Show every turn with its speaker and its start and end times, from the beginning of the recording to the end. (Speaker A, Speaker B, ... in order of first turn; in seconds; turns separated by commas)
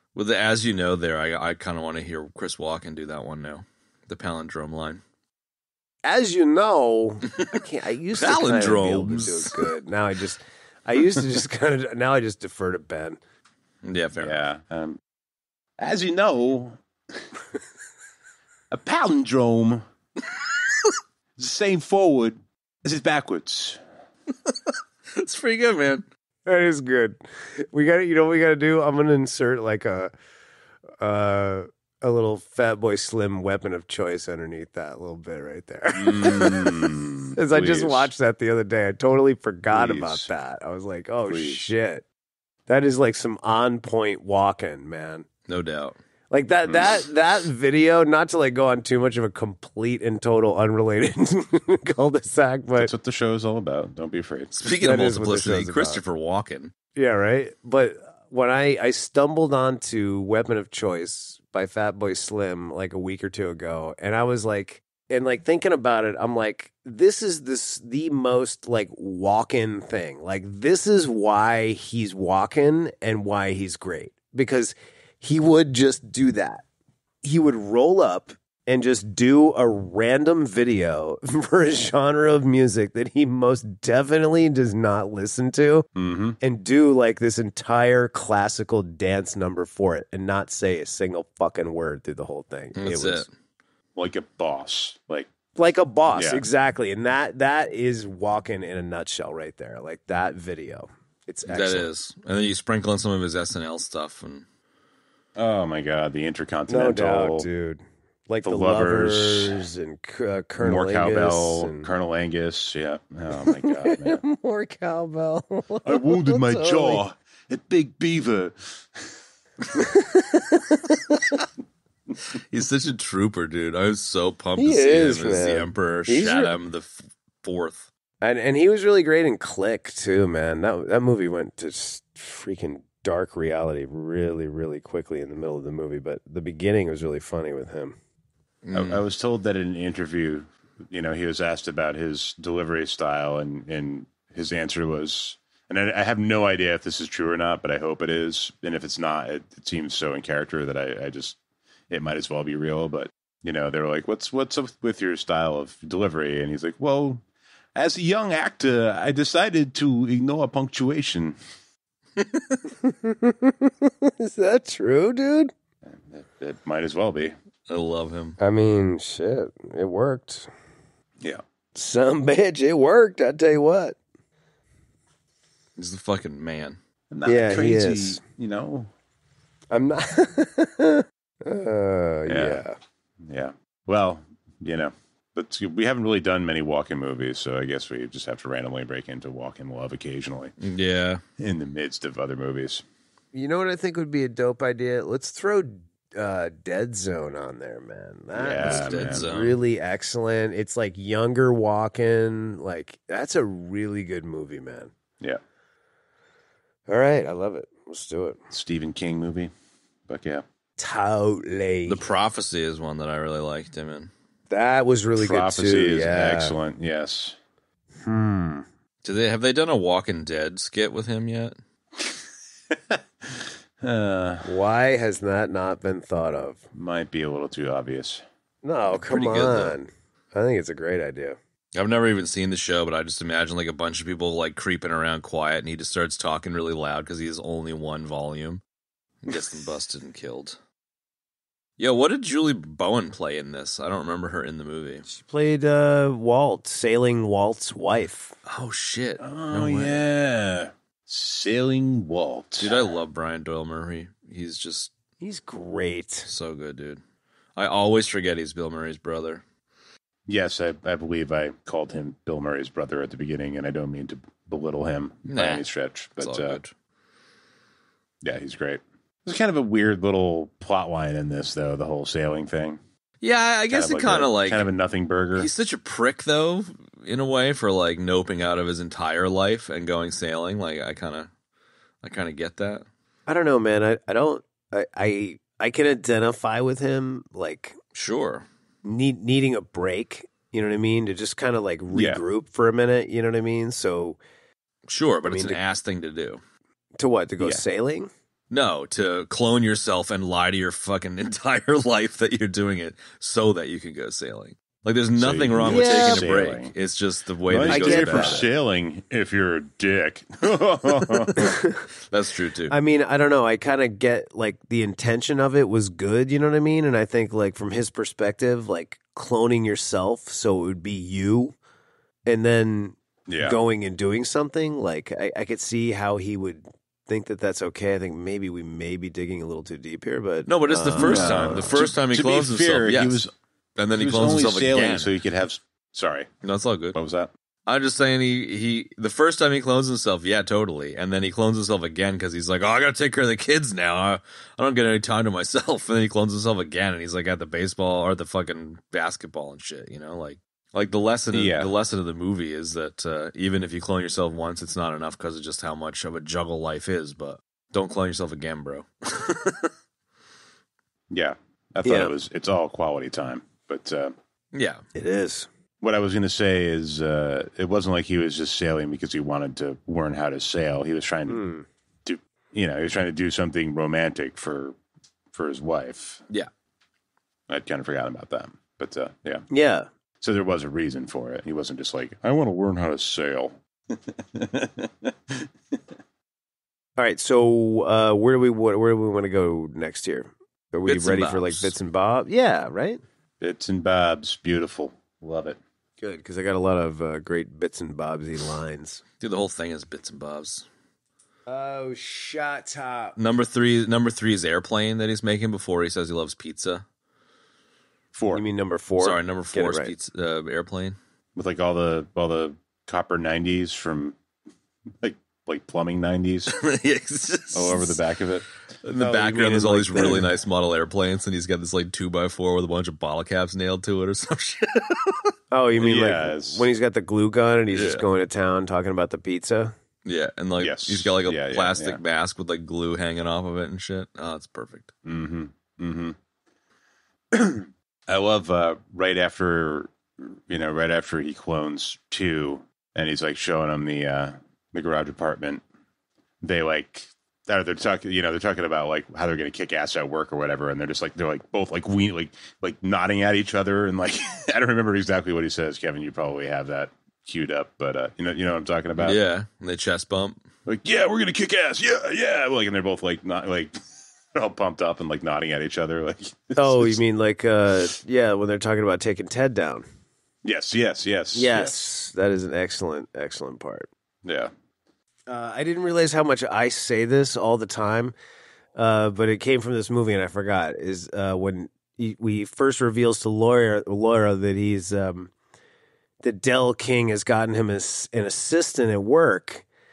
Speaker A: 0.1-5.0, Speaker B: 6.0-13.2, Speaker A: 8.2-9.6, Speaker A: 13.8-14.4, Speaker C: 14.2-15.0, Speaker C: 15.8-17.2, Speaker C: 18.7-19.8, Speaker C: 21.4-23.8, Speaker A: 24.4-26.1, Speaker B: 26.4-30.1, Speaker B: 31.0-42.0, Speaker C: 35.9-38.1, Speaker C: 39.7-40.3, Speaker C: 41.3-41.6, Speaker B: 42.7-45.3, Speaker A: 45.5-46.0, Speaker B: 46.3-52.9, Speaker C: 52.8-54.5, Speaker A: 54.5-56.7, Speaker B: 54.8-56.0, Speaker B: 57.0-76.6, Speaker B: 77.2-85.9, Speaker C: 86.0-86.4, Speaker B: 86.4-93.2, Speaker A: 92.8-93.3, Speaker C: 94.0-95.3, Speaker B: 95.5-101.9, Speaker C: 96.1-96.4, Speaker A: 101.5-104.4, Speaker C: 105.4-107.5, Speaker B: 106.7-111.9, Speaker C: 108.4-109.6, Speaker C: 110.6-114.2, Speaker B: 113.3-117.0, Speaker C: 115.8-119.1, Speaker B: 119.7-121.4, Speaker A: 122.3-127.9, Speaker B: 124.6-126.5, Speaker B: 128.2-137.9, Speaker A: 138.6-139.0, Speaker C: 138.7-151.4, Speaker C: 151.9-157.2, Speaker C: 157.7-161.4, Speaker A: 162.2-162.6, Speaker B: 162.8-165.5, Speaker C: 165.8-167.3, Speaker A: 167.7-168.4, Speaker B: 168.4-170.5, Speaker B: 171.7-174.0, Speaker A: 175.8-176.8, Speaker C: 177.1-178.9, Speaker B: 177.2-178.2, Speaker B: 179.7-182.8, Speaker C: 182.3-182.6, Speaker C: 183.2-190.5, Speaker A: 190.6-191.2, Speaker C: 191.4-192.8, Speaker B: 193.3-204.9, Speaker C: 198.4-199.3, Speaker A: 198.4-199.6, Speaker B: 206.9-208.4, Speaker C: 208.5-209.5, Speaker C: 210.1-210.4, Speaker B: 210.8-212.0, Speaker A: 211.9-214.1, Speaker B: 214.5-216.6, Speaker C: 215.2-217.4, Speaker B: 218.0-218.7, Speaker A: 219.0-221.6, Speaker C: 222.7-224.5, Speaker B: 224.4-226.6, Speaker C: 226.7-228.2, Speaker B: 228.6-231.4, Speaker A: 229.0-229.7, Speaker A: 231.7-238.6, Speaker A: 239.2-240.6, Speaker A: 241.8-245.1, Speaker B: 245.1-248.3, Speaker A: 248.4-250.0, Speaker C: 249.2-252.9, Speaker A: 252.6-254.9, Speaker B: 255.2-256.3, Speaker A: 256.3-257.0, Speaker A: 257.6-259.4, Speaker C: 260.3-266.6, Speaker A: 265.3-265.6, Speaker A: 266.2-266.7, Speaker C: 268.2-272.8, Speaker A: 273.2-274.7, Speaker C: 273.7-275.5, Speaker A: 275.4-281.3, Speaker A: 282.0-282.9, Speaker B: 283.3-287.8, Speaker A: 287.9-288.4, Speaker B: 288.8-294.2, Speaker C: 291.9-292.2, Speaker A: 294.9-296.4, Speaker B: 295.2-295.6, Speaker B: 297.0-298.1, Speaker A: 298.5-308.4, Speaker C: 305.1-306.7, Speaker B: 305.6-306.3, Speaker C: 307.5-311.5, Speaker B: 307.7-308.4, Speaker B: 311.3-311.8, Speaker A: 312.1-312.7, Speaker B: 312.7-321.6, Speaker B: 322.2-331.7, Speaker C: 323.3-323.6, Speaker A: 330.5-335.1, Speaker C: 331.0-333.3, Speaker C: 333.9-336.3, Speaker A: 336.4-337.0, Speaker C: 336.9-337.3, Speaker A: 337.7-359.7, Speaker C: 351.3-351.7, Speaker C: 361.1-364.1, Speaker B: 361.8-362.1, Speaker A: 364.5-364.8, Speaker B: 364.9-365.5, Speaker C: 365.8-371.4, Speaker B: 371.3-371.6, Speaker C: 372.1-374.8, Speaker C: 375.3-376.2, Speaker C: 377.5-379.4, Speaker B: 379.5-379.9, Speaker C: 380.2-385.5, Speaker B: 387.0-393.0, Speaker A: 390.9-391.7, Speaker C: 393.4-395.6, Speaker B: 396.0-399.0, Speaker A: 399.2-400.6, Speaker B: 401.5-403.2, Speaker A: 403.2-406.8, Speaker C: 408.1-408.4, Speaker B: 408.3-409.9, Speaker A: 409.0-410.9, Speaker C: 411.4-414.2, Speaker C: 415.0-416.5, Speaker A: 416.5-418.0, Speaker C: 417.5-418.4, Speaker A: 418.8-425.3, Speaker C: 419.0-420.3, Speaker B: 419.0-420.2, Speaker B: 425.5-429.7, Speaker C: 425.8-426.6, Speaker A: 427.7-428.1, Speaker A: 430.1-434.9, Speaker C: 430.6-432.0, Speaker C: 435.1-436.1, Speaker C: 437.3-445.6, Speaker C: 446.4-459.2, Speaker A: 459.0-460.4, Speaker C: 460.6-463.8, Speaker C: 464.3-467.0, Speaker B: 466.6-469.8, Speaker C: 470.4-471.9, Speaker B: 471.3-473.9, Speaker C: 474.2-474.5, Speaker B: 475.3-478.1, Speaker B: 478.8-485.3, Speaker B: 486.2-489.6